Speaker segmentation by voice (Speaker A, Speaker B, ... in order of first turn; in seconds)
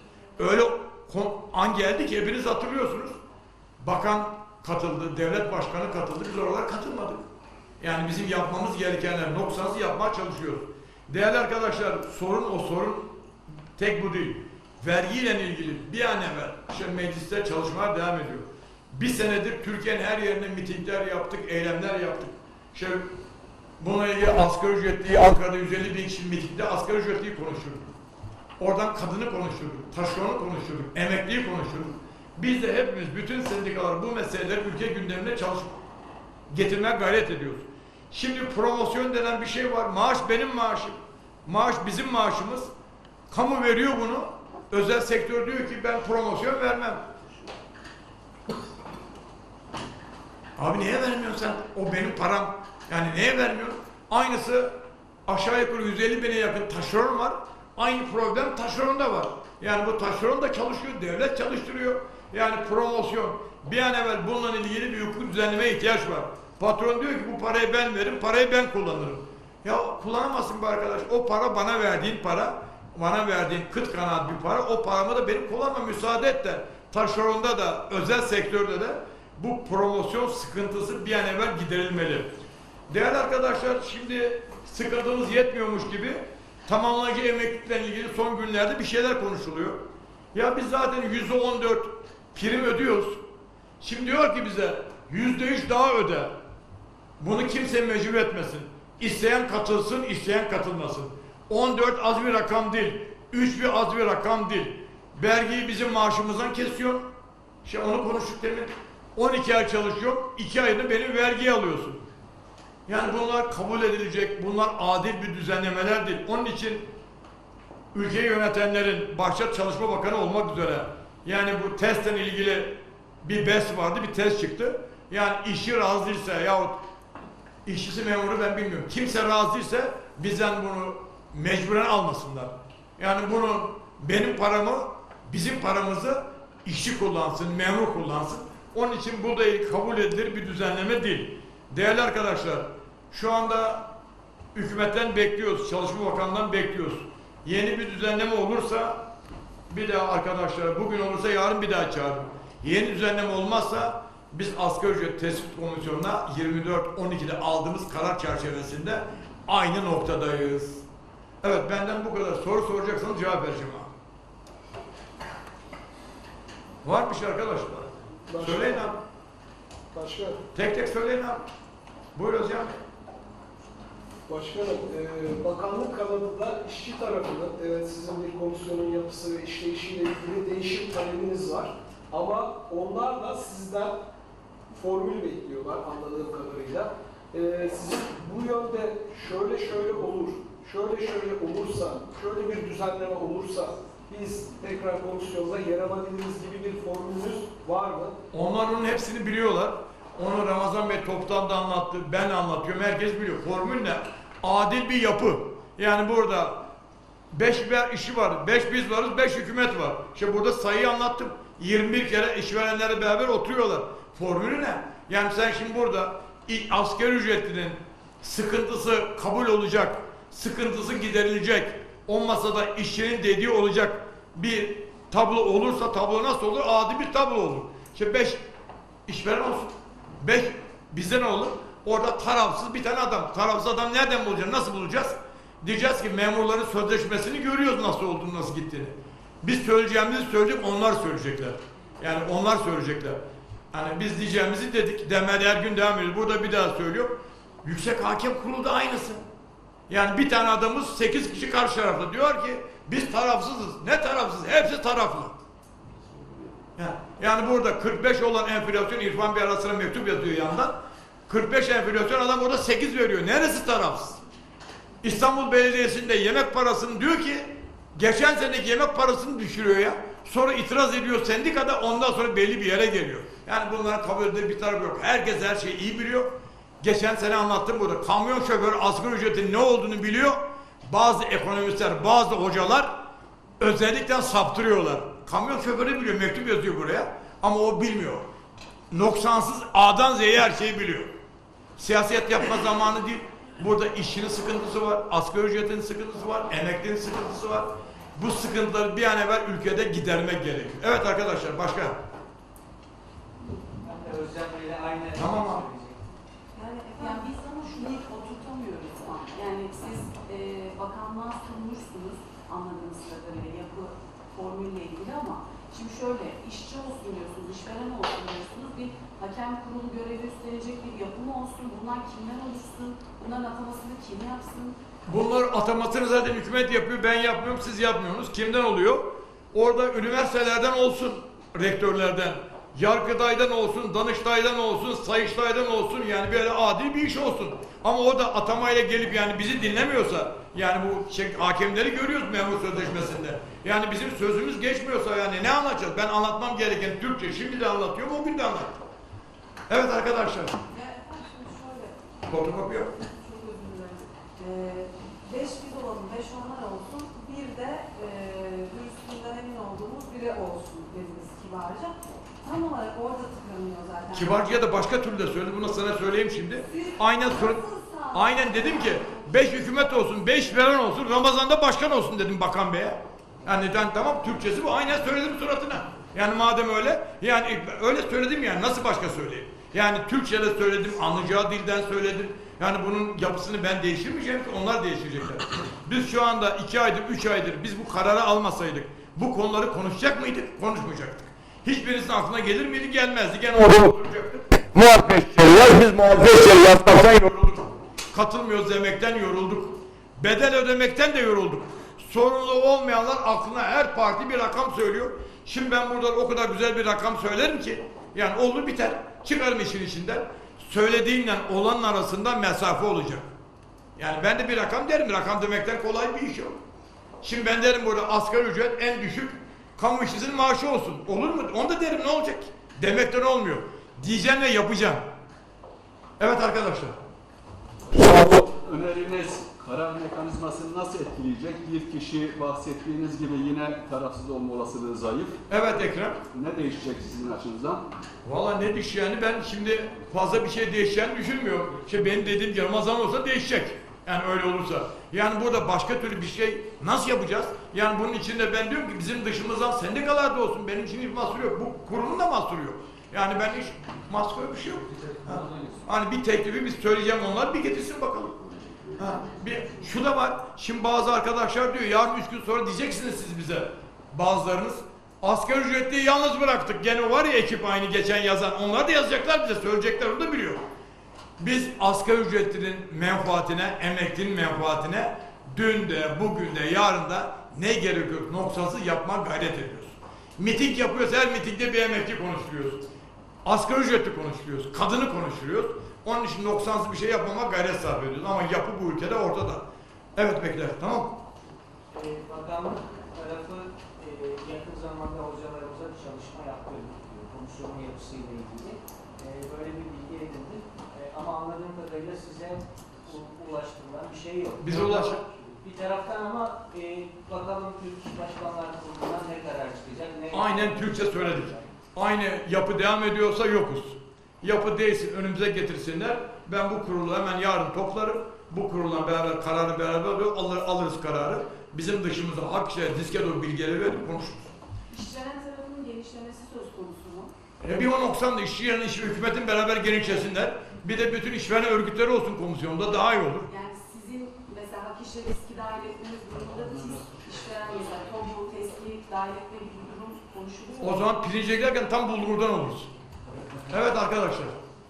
Speaker A: 0.4-3.1, 3.8-7.2, 7.8-13.1, 13.8-23.1, 23.8-27.9, 28.6-35.7, 36.5-42.7, 43.3-47.0, 50.6-54.7, 55.3-82.3, 82.9-89.8, 90.3-93.2, 93.8-96.3, 97.2-107.0, 107.6-112.0, 112.9-116.9, 117.9-126.8, 127.7-143.9, 144.6-149.0, 149.7-160.8, 161.4-163.9, 166.8-169.0, 170.5-171.4, 172.2-172.7, 198.3-206.6, 207.3-228.4, 229.1-243.2, 243.7-249.2, 249.9-255.4, 256.8-260.8, 261.3-264.2, 265.0-276.3, 276.8-282.9, 283.6-288.2, 288.9-291.1, 291.8-302.0, 305.2-305.7, 325.1-348.7, 349.7-350.6, 352.3-352.9, 364.1-413.3, 414.0-416.6, 417.2-425.0, 426.2-426.9, 435.5-436.2, 438.2-470.6, 471.4-482.9, 483.4-489.6, 490.2-491.2, 504.6-505.2, 510.3-524.5, 527.6-533.5, 540.8-542.9, 543.7-544.5
Speaker B: 168.3-168.9, 169.9-170.4, 174.3-184.0, 184.7-198.2
Speaker C: 303.8-306.0, 491.9-511.7
Speaker D: 306.6-324.8, 350.7-351.9, 352.9-364.4, 366.7-369.5, 524.9-527.3, 533.5-541.0
Speaker E: 427.9-435.4, 436.3-437.9